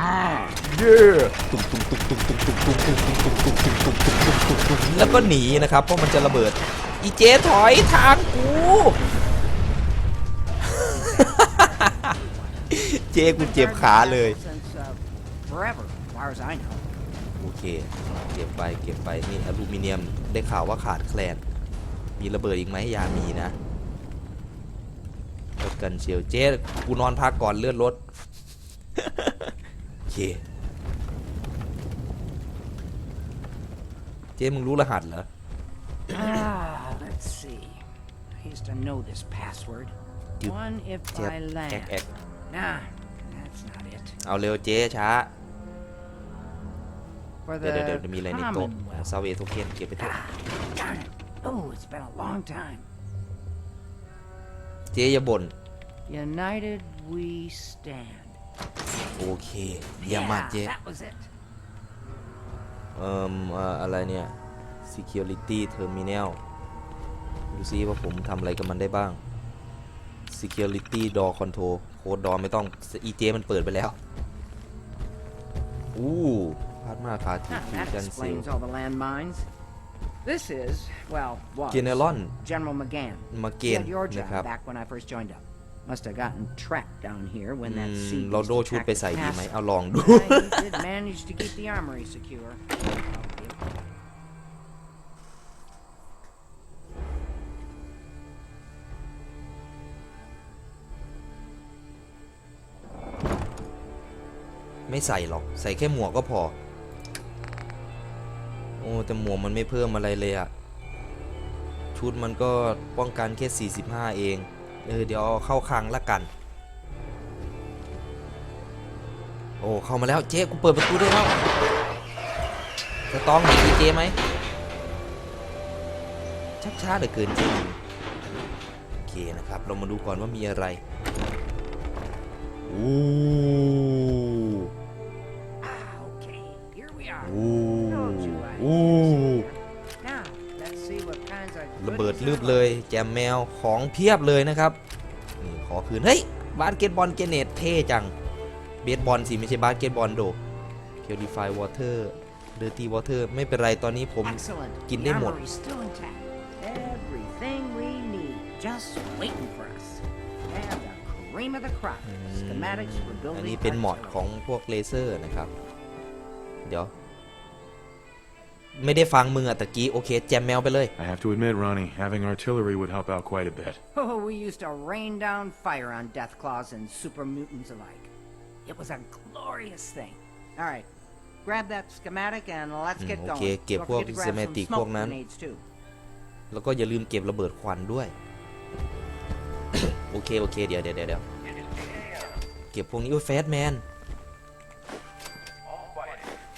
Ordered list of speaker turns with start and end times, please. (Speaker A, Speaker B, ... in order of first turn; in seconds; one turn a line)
Speaker A: 0.6-9.0
Speaker B: 10.8-16.9
Speaker A: 10.8-11.9
Speaker A: 12.7-14.4
Speaker A: 17.4-21.4
Speaker A: 22.2-23.6
Speaker A: 25.6-28.2
Speaker A: 29.0-29.6
Speaker A: 30.1-30.4
Speaker A: 34.4-35.3
Speaker B: 36.1-37.8
Speaker B: 38.4-44.2
Speaker A: 41.1-42.1
Speaker A: 44.2-45.3
Speaker B: 47.5-49.2
Speaker A: 47.6-50.2
Speaker B: 50.0-52.9
Speaker A: 54.9-55.5
Speaker B: 56.1-58.4
Speaker A: 59.2-60.7
Speaker B: 60.0-61.3
Speaker A: 62.9-66.4
Speaker A: 67.5-69.2
Speaker A: 70.3-74.0
Speaker A: 75.9-78.5
Speaker B: 77.5-79.5
Speaker B: 80.2-93.8
Speaker A: 81.7-82.3
Speaker A: 83.3-84.5
Speaker A: 87.6-90.8
Speaker A: 104.9-106.5
Speaker A: 108.8-110.5
Speaker A: 111.9-116.3
Speaker A: 119.6-121.4
Speaker A: 123.1-124.2
Speaker A: 126.6-127.8
Speaker A: 129.1-130.8
Speaker A: 132.7-134.7
Speaker B: 135.6-142.7
Speaker A: 137.2-139.4
Speaker A: 141.8-144.8
Speaker A: 145.4-148.1
Speaker A: 148.8-150.4
Speaker A: 151.0-155.4
Speaker B: 154.2-164.2
Speaker A: 162.0-165.5
Speaker A: 166.7-166.9
Speaker A: 168.8-170.9
Speaker C: 171.0-173.8
Speaker B: 173.9-178.1
Speaker B: 178.7-180.9
Speaker B: 181.4-185.6
Speaker A: 183.0-185.2
Speaker A: 186.5-188.1
Speaker A: 189.7-191.2
Speaker A: 192.7-193.8